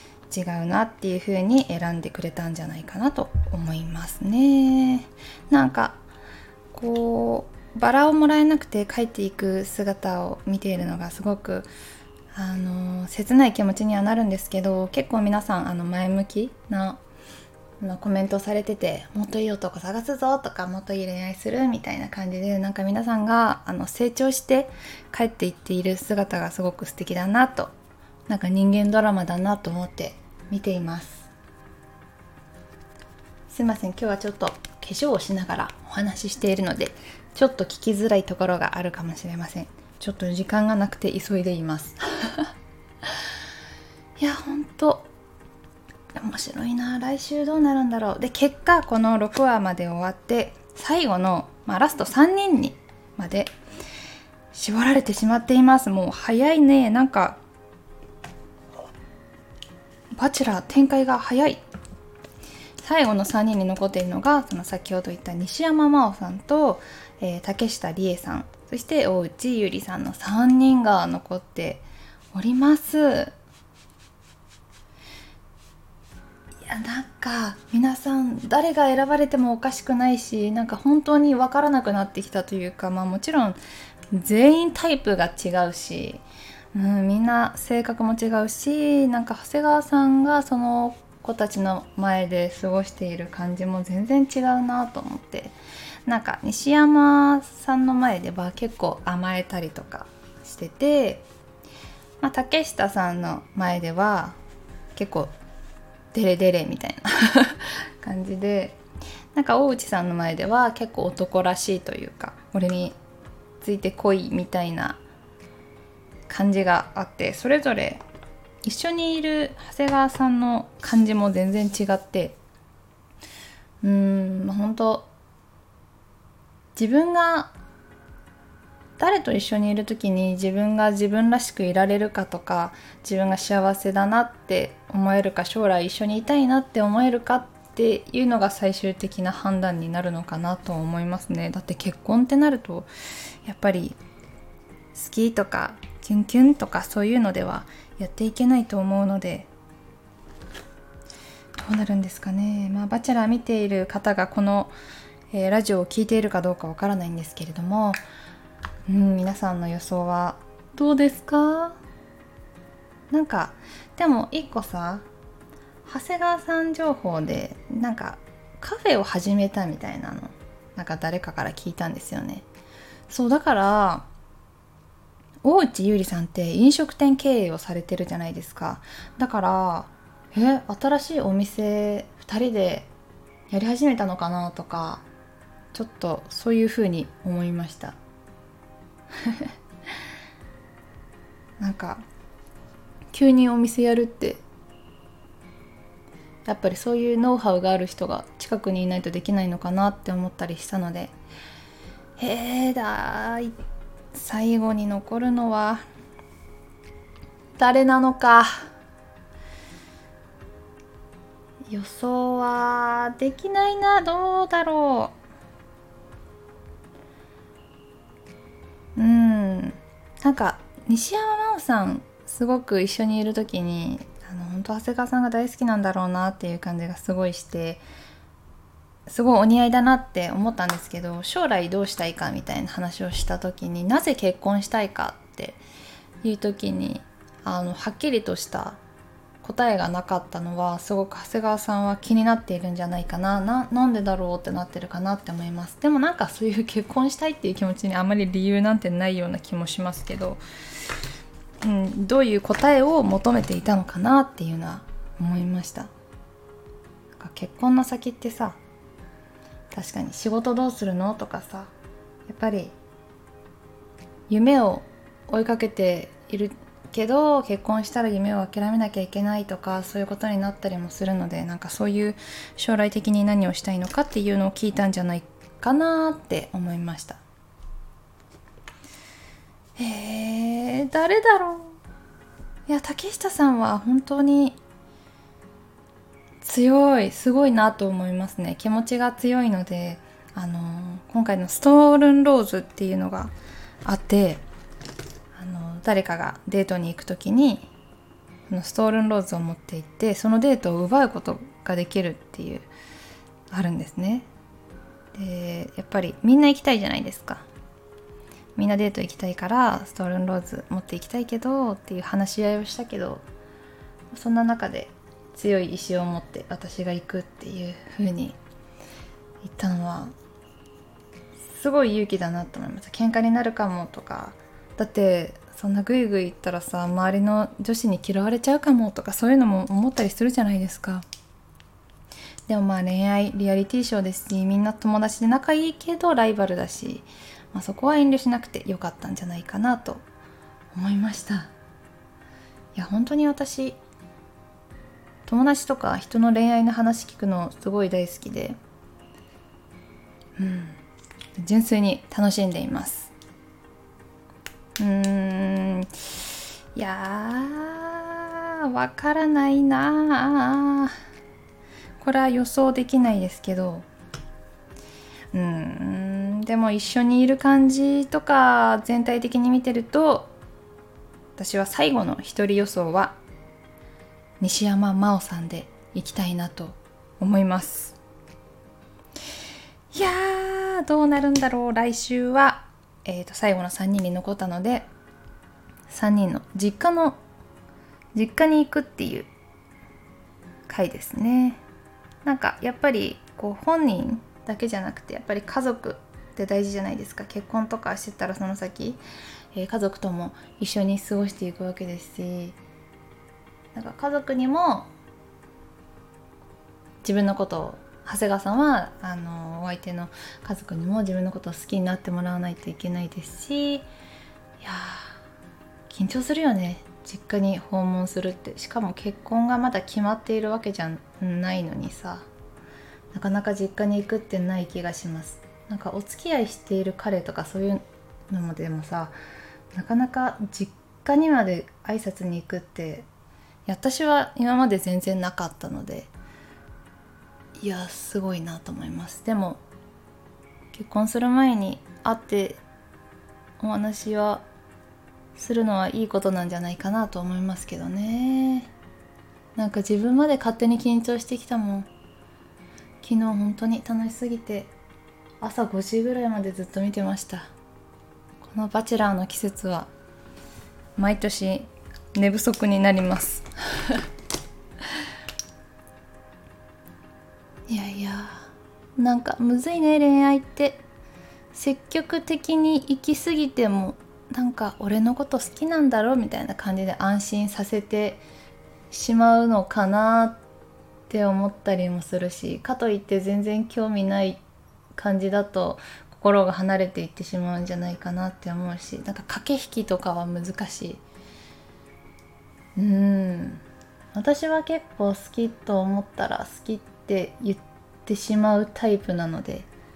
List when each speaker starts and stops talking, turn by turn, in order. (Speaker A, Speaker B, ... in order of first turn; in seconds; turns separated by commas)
Speaker A: 0.3-6.0, Speaker A: 6.7-11.7, Speaker A: 12.3-17.0, Speaker A: 17.8-27.7, Speaker A: 28.3-31.3, Speaker A: 33.5-42.5, Speaker A: 44.2-45.1, Speaker A: 46.2-53.5, Speaker A: 54.5-57.4, Speaker A: 60.1-61.6, Speaker A: 62.8-73.3, Speaker A: 76.6-83.6, Speaker A: 84.1-86.2, Speaker A: 86.7-101.2, Speaker A: 102.2-104.4, Speaker A: 105.0-105.3, Speaker A: 106.1-108.8, Speaker A: 109.3-113.0, Speaker A: 113.6-115.0, Speaker A: 116.3-118.0, Speaker A: 118.6-122.4, Speaker A: 123.8-125.1, Speaker A: 126.8-127.5, Speaker A: 129.0-142.9, Speaker A: 143.4-144.0, Speaker A: 144.9-149.5, Speaker A: 151.6-154.7, Speaker A: 155.3-158.0, Speaker A: 158.9-161.8, Speaker A: 163.1-165.1, Speaker A: 165.8-172.5, Speaker A: 173.1-174.1, Speaker A: 175.4-182.9, Speaker A: 183.5-185.0, Speaker A: 185.7-188.0, Speaker A: 191.6-192.1, Speaker A: 193.1-194.4, Speaker A: 196.5-201.1, Speaker A: 202.2-203.5, Speaker A: 204.1-205.8, Speaker A: 207.6-208.7, Speaker A: 211.7-215.2, Speaker A: 219.0-227.8, Speaker A: 229.1-235.6, Speaker A: 236.2-238.8, Speaker A: 239.4-250.4, Speaker A: 251.6-255.9, Speaker A: 257.2-258.6, Speaker A: 259.7-261.7, Speaker A: 262.3-262.8, Speaker A: 264.3-277.2, Speaker A: 279.8-281.8, Speaker A: 282.7-284.6, Speaker A: 286.4-293.3, Speaker A: 293.9-294.4, Speaker A: 295.4-297.7, Speaker A: 298.5-302.7, Speaker A: 303.5-304.3, Speaker A: 305.1-307.5, Speaker A: 308.6-313.2, Speaker A: 314.1-318.4, Speaker A: 319.4-320.1, Speaker A: 321.4-331.1, Speaker A: 332.5-340.0, Speaker A: 340.7-341.5, Speaker A: 342.8-343.8, Speaker A: 345.2-348.6, Speaker A: 350.4-350.8, Speaker A: 351.4-353.1, Speaker A: 354.8-355.9, Speaker A: 356.7-360.9, Speaker A: 362.0-363.9, Speaker A: 365.3-370.3, Speaker A: 371.4-373.2, Speaker A: 374.4-378.0, Speaker A: 379.9-384.9, Speaker A: 385.9-387.2, Speaker A: 388.1-389.3, Speaker A: 390.7-391.6, Speaker A: 392.2-399.0, Speaker A: 399.5-402.6, Speaker A: 403.7-404.9, Speaker A: 407.0-413.9, Speaker A: 414.6-415.2, Speaker A: 415.9-422.3, Speaker A: 423.1-429.1, Speaker A: 429.7-433.1, Speaker A: 433.7-436.1, Speaker A: 437.6-439.6, Speaker A: 440.7-442.6, Speaker A: 443.6-444.4, Speaker A: 445.4-448.7, Speaker A: 449.6-451.9, Speaker A: 453.0-454.7, Speaker A: 455.4-457.5, Speaker A: 458.4-459.9, Speaker A: 461.0-464.1, Speaker A: 467.7-470.8, Speaker A: 471.5-478.2, Speaker A: 478.9-480.4, Speaker A: 481.1-484.4, Speaker A: 484.9-491.0, Speaker A: 492.8-493.6, Speaker A: 494.1-499.7